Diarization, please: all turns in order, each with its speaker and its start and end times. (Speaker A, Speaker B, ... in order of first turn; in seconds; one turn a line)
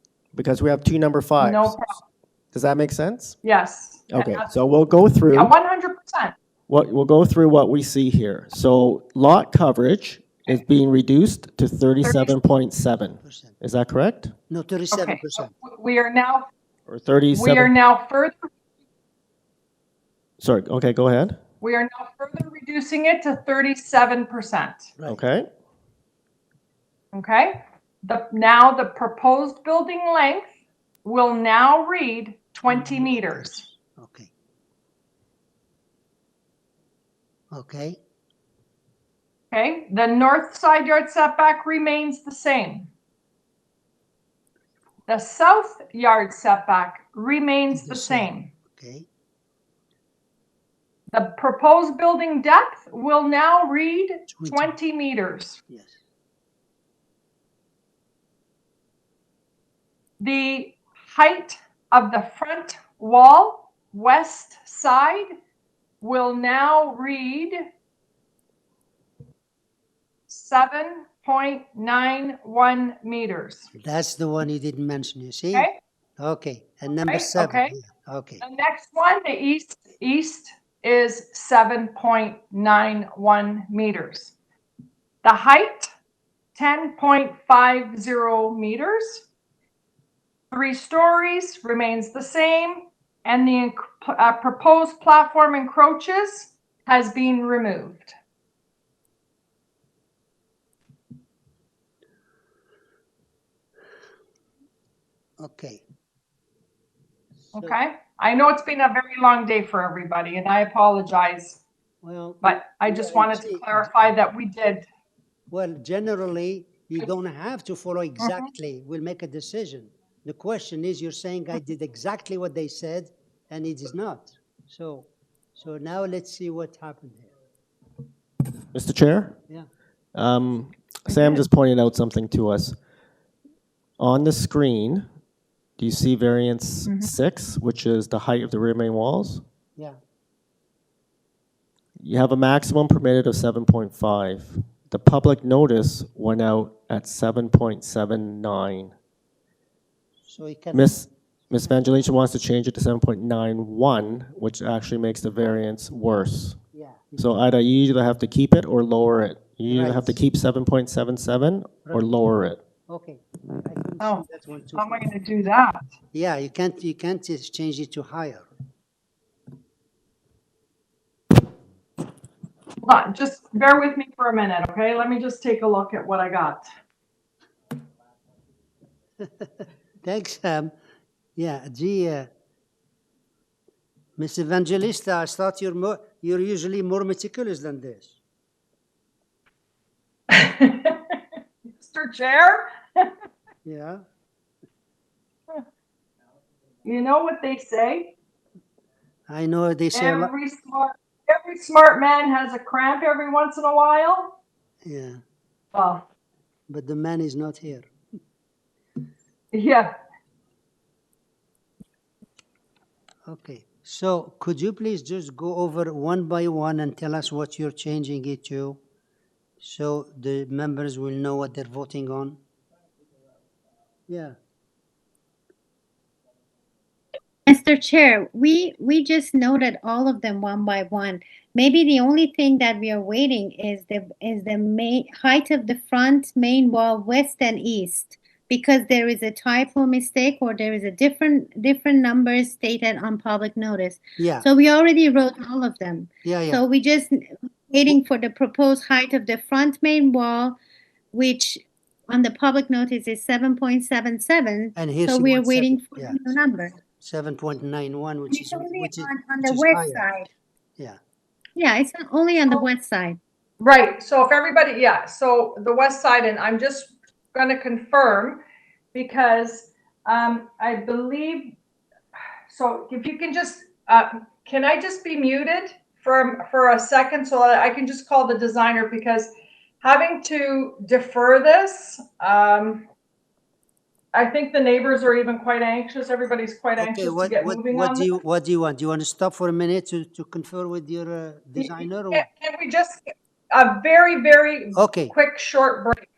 Speaker A: 0.3-1.8
Speaker B: 1.4-2.0
Speaker A: 2.5-3.4
Speaker B: 3.4-4.5
Speaker A: 4.1-5.5
Speaker B: 5.3-6.3
Speaker A: 6.7-14.3
Speaker B: 12.0-12.4
Speaker C: 13.2-13.6
Speaker C: 14.5-15.5
Speaker B: 14.9-16.5
Speaker A: 16.9-17.7
Speaker B: 17.3-18.5
Speaker A: 20.4-21.4
Speaker B: 21.6-24.9
Speaker A: 25.1-25.5
Speaker B: 27.1-30.5
Speaker B: 31.0-33.6
Speaker C: 32.7-34.3
Speaker C: 37.5-38.0
Speaker B: 39.5-42.9
Speaker B: 45.1-48.5
Speaker C: 47.7-49.1
Speaker B: 51.1-55.6
Speaker C: 54.3-54.7
Speaker C: 55.7-55.9
Speaker B: 60.2-65.3
Speaker B: 66.0-67.6
Speaker B: 70.3-73.7
Speaker C: 73.7-78.4
Speaker B: 77.0-77.7
Speaker B: 78.4-84.3
Speaker B: 85.2-85.9
Speaker B: 86.5-89.2
Speaker B: 90.5-98.1
Speaker C: 105.4-105.8
Speaker C: 107.5-107.8
Speaker B: 107.5-111.6
Speaker C: 112.0-113.9
Speaker B: 112.4-114.8
Speaker C: 115.5-127.3
Speaker B: 118.2-118.5
Speaker A: 128.7-129.4
Speaker A: 130.1-132.8
Speaker B: 131.1-131.4
Speaker A: 134.0-135.0
Speaker A: 135.8-139.4
Speaker B: 136.8-137.1
Speaker A: 142.0-148.9
Speaker C: 150.2-151.8
Speaker A: 150.7-156.6
Speaker C: 156.7-157.3
Speaker A: 157.2-162.6
Speaker C: 159.7-160.2
Speaker C: 162.9-165.1
Speaker B: 164.0-165.8
Speaker C: 166.1-168.5
Speaker B: 172.8-176.6
Speaker C: 180.0-180.7
Speaker C: 181.4-182.3
Speaker C: 184.2-188.2
Speaker B: 190.3-191.2
Speaker B: 191.7-193.1
Speaker C: 193.6-194.0
Speaker B: 196.8-198.1
Speaker C: 199.3-200.3
Speaker B: 199.9-204.3
Speaker C: 204.8-205.2
Speaker B: 205.7-206.1
Speaker C: 206.7-207.9
Speaker B: 209.5-209.9
Speaker C: 213.2-218.8
Speaker C: 219.6-222.4
Speaker C: 224.1-224.4
Speaker D: 227.4-250.6
Speaker C: 244.2-244.5
Speaker C: 246.2-246.6
Speaker D: 251.1-256.8
Speaker C: 254.8-256.2
Speaker C: 256.9-260.2
Speaker D: 258.3-260.3
Speaker D: 261.6-263.2
Speaker B: 263.6-268.4
Speaker B: 268.9-271.6
Speaker B: 272.5-279.3
Speaker B: 279.8-282.9
Speaker B: 284.1-288.1
Speaker C: 286.8-292.3
Speaker B: 291.6-296.1
Speaker C: 294.7-295.1